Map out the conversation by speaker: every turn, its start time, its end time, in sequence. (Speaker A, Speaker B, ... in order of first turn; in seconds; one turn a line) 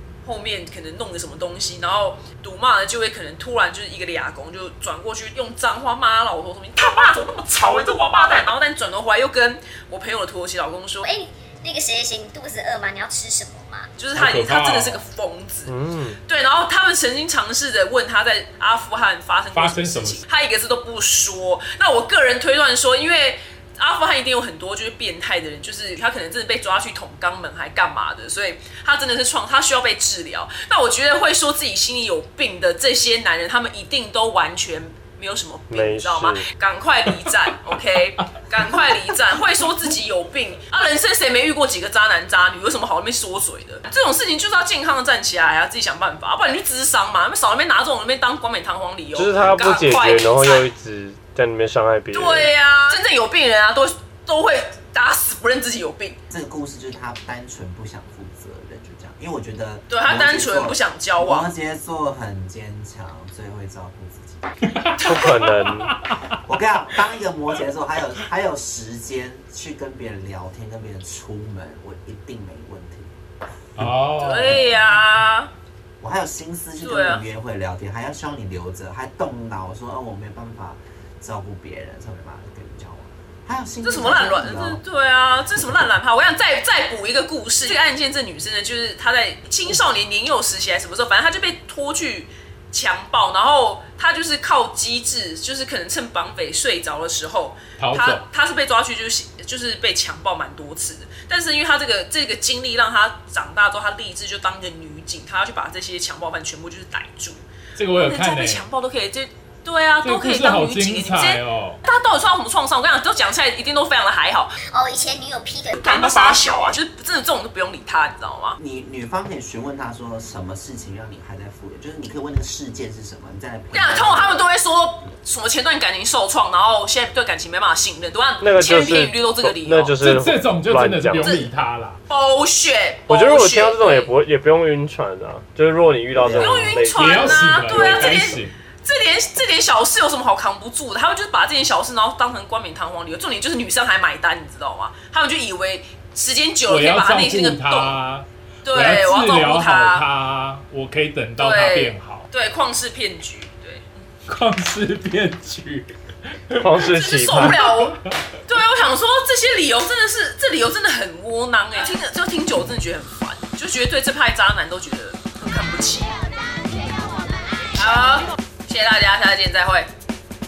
Speaker A: 0.2-11.1
Speaker B: 11.1-13.9
Speaker A: 14.0-50.7
Speaker C: 14.1-15.0
Speaker D: 15.7-16.2
Speaker C: 19.5-20.2
Speaker D: 35.7-36.5
Speaker D: 49.1-52.5
Speaker A: 52.1-56.2
Speaker E: 56.3-64.6
Speaker A: 59.9-61.5
Speaker C: 64.7-66.3
Speaker D: 65.1-65.9
Speaker E: 66.4-73.1
Speaker C: 73.8-74.7
Speaker A: 74.2-75.5
Speaker E: 74.5-75.0
Speaker E: 76.0-84.8
Speaker A: 76.8-77.3
Speaker A: 83.8-114.5
Speaker C: 97.8-98.2
Speaker C: 107.8-108.7
Speaker C: 110.0-111.8
Speaker B: 114.7-116.4
Speaker A: 115.8-118.6
Speaker E: 118.6-124.4
Speaker A: 123.7-130.0
Speaker D: 128.4-131.3
Speaker C: 130.0-132.0
Speaker A: 131.2-131.5
Speaker A: 132.1-134.1
Speaker D: 133.1-138.1
Speaker E: 136.1-136.8
Speaker A: 136.3-148.0
Speaker C: 136.9-138.6
Speaker C: 146.7-152.3
Speaker A: 148.6-150.1
Speaker A: 151.4-153.9
Speaker C: 154.3-157.9
Speaker D: 156.6-157.6
Speaker A: 156.9-166.2
Speaker A: 167.8-169.9